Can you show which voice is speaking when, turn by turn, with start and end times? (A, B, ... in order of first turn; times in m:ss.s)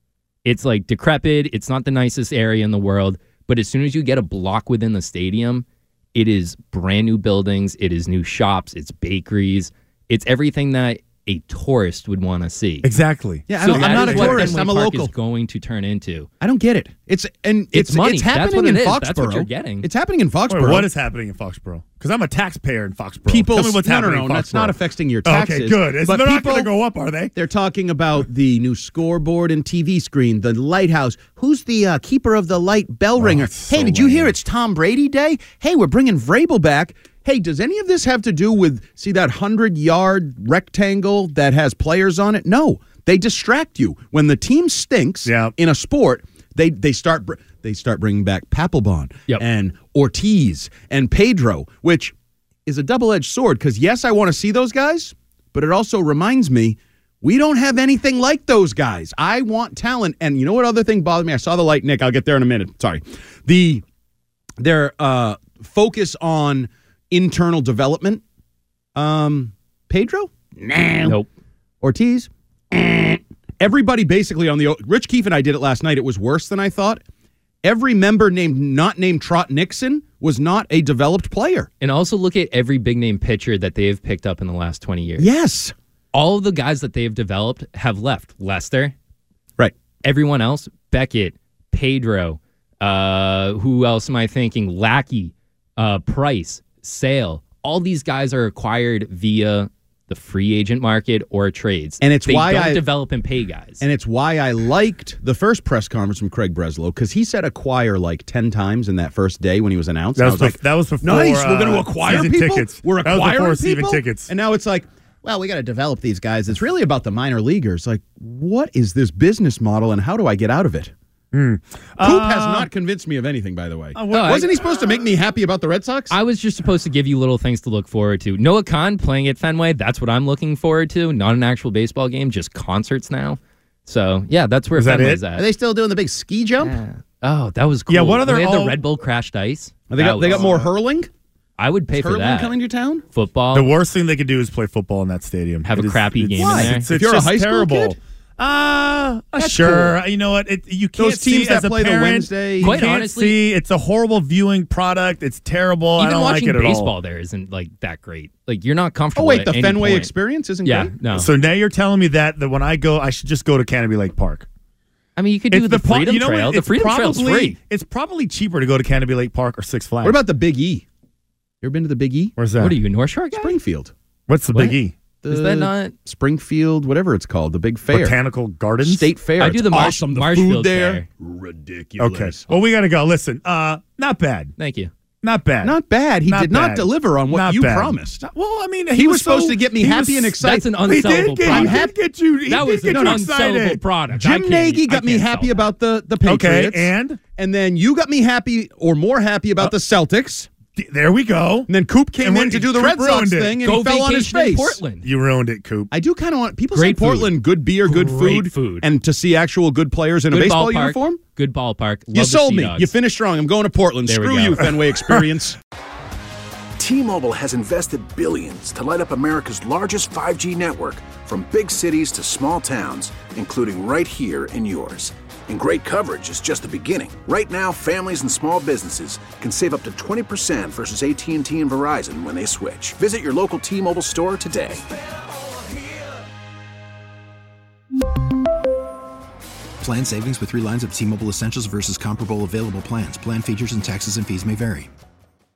0:00.4-0:12.9 A
0:12.8-0:14.6 B
0:13.5-0:15.1 C
0:13.6-0:16.3 A
0:16.4-0:20.9 C
0:17.7-0:19.9 A
0:20.5-0:27.4 B
0:23.3-0:26.7 C
0:27.4-0:52.1 C
0:33.2-0:34.3 B
0:45.3-0:45.5 B
0:52.7-1:03.8 C
1:04.6-1:08.2 C
1:09.0-1:11.2 C
1:11.0-1:11.3 A
1:11.8-1:17.0 C
1:17.6-1:21.7 C
1:21.8-1:25.3 A
1:25.2-1:25.7 C
1:26.1-1:29.0 A
1:30.0-1:43.8 A
1:42.0-1:42.8 C
1:43.8-2:00.9 C
1:50.2-1:54.3 B
2:01.3-2:02.7 B
2:02.0-2:06.2 C
2:04.0-2:04.5 B
2:04.1-2:04.5 A
2:06.1-2:15.5 A
2:14.8-2:15.2 B
2:15.4-2:16.8 C
2:16.6-2:20.7 A
2:17.9-2:18.8 B
2:19.9-2:21.1 C
2:21.6-2:22.6 A
2:21.9-2:23.0 C
2:23.1-2:23.7 A
2:23.5-2:36.9 B
2:25.6-2:26.9 A
2:26.4-2:28.0 C
2:29.4-2:30.0 C
2:31.0-2:32.8 C
2:32.6-2:33.4 A
2:36.0-2:40.1 A
2:39.2-2:40.9 C
2:40.6-2:41.3 A
2:41.1-2:44.5 B
2:45.2-2:47.6 A
2:45.5-2:50.2 B
2:50.0-2:50.9 C
2:51.6-2:52.4 C
2:52.4-2:52.8 B
2:52.6-2:53.6 A
2:53.4-2:53.9 C
2:54.3-2:55.0 B
2:55.2-2:58.2 C
2:55.3-2:55.9 A
2:57.9-2:59.1 B
2:58.8-3:02.5 C
2:59.4-3:01.1 A
3:02.0-3:04.5 B
3:04.6-3:04.9 A
3:05.2-3:13.8 B
3:05.6-3:08.2 C
3:08.9-3:11.9 C
3:10.4-3:11.9 A
3:12.5-3:15.7 A
3:12.9-3:13.2 C
3:14.1-3:20.5 C
3:16.2-3:17.2 B
3:20.8-3:23.7 B
3:21.7-3:24.8 C
3:23.6-3:25.1 A
3:25.0-3:25.9 B
3:25.9-3:31.2 C
3:26.7-3:28.9 A
3:30.3-3:32.9 A
3:32.1-3:35.6 C
3:34.1-3:34.8 A
3:36.8-3:54.8 D
3:59.8-4:04.9 E